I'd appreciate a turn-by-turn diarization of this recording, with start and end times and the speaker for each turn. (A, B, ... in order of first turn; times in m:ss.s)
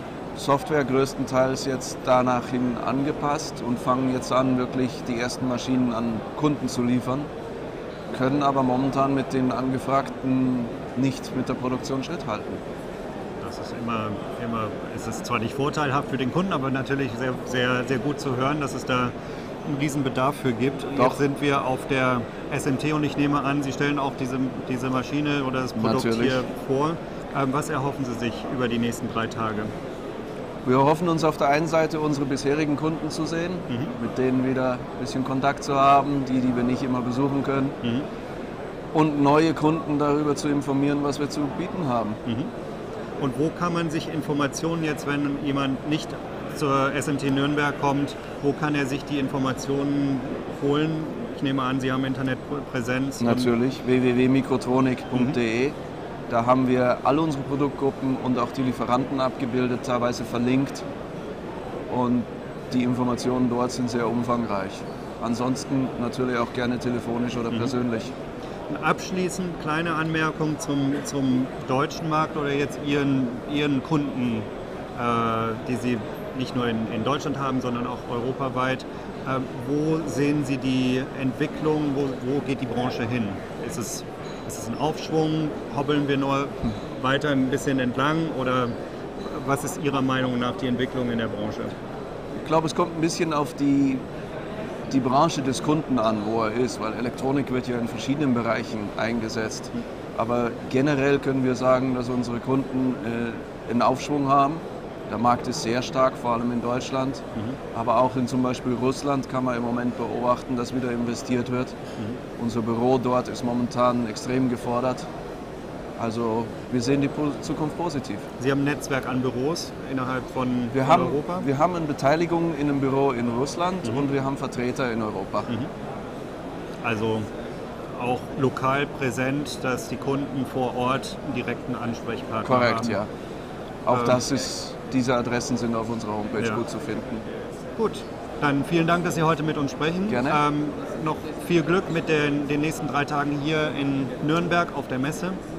0:00.3-0:07.3 A
0:08.1-0:12.6 A
0:13.4-0:19.1 B
0:19.6-0:29.7 B
0:25.7-0:26.4 A
0:30.6-0:37.8 A
0:33.7-0:34.0 B
0:38.9-0:42.2 A
0:42.2-0:42.5 B
0:43.2-0:53.5 B
0:53.2-0:55.8 A
0:56.3-1:00.8 A
1:01.9-1:08.1 A
1:08.7-1:31.8 B
1:32.4-1:34.0 A
1:34.9-1:51.8 A
1:52.4-1:55.1 A
1:56.0-1:58.2 A
1:58.4-2:01.5 B
2:00.7-2:05.5 A
2:06.8-2:07.3 B
2:07.9-2:13.0 B
2:12.4-2:13.1 A
2:13.8-2:17.2 A
2:13.9-2:14.2 B
2:17.8-2:25.4 B
2:20.1-2:20.4 A